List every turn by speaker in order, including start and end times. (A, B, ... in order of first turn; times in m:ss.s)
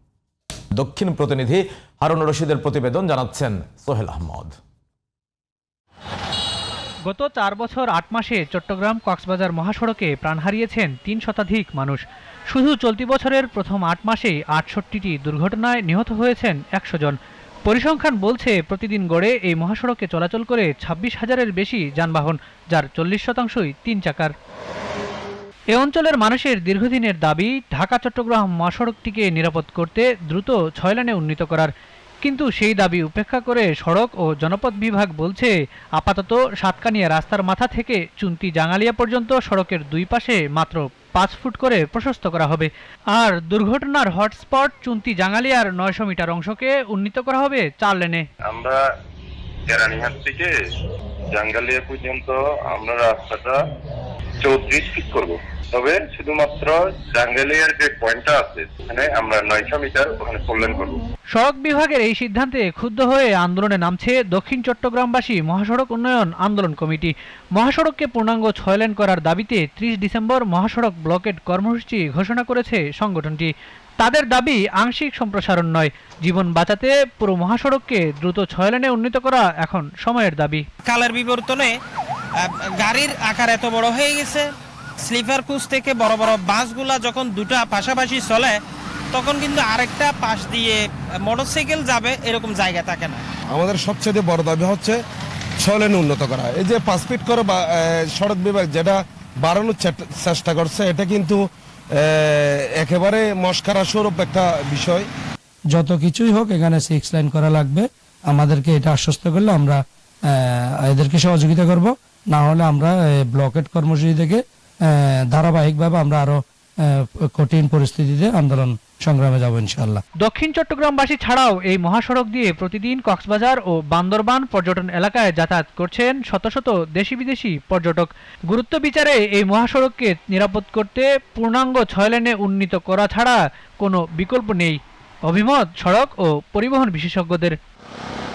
0:00.7-0:04.5 A
0:07.1-0:24.3 B
0:25.7-0:31.7 B
0:32.2-0:48.2 B
0:48.4-0:48.8 C
0:49.7-0:50.5 C
0:51.3-0:53.6 C
0:54.4-1:01.0 C
1:01.3-1:20.6 B
1:20.8-1:21.7 D
1:22.8-1:24.5 D
1:25.0-1:28.6 D
1:29.1-1:33.2 D
1:33.5-1:35.0 E
1:35.6-1:41.4 E
1:42.0-1:45.1 E
1:45.7-2:00.0 F
2:00.2-2:17.6 B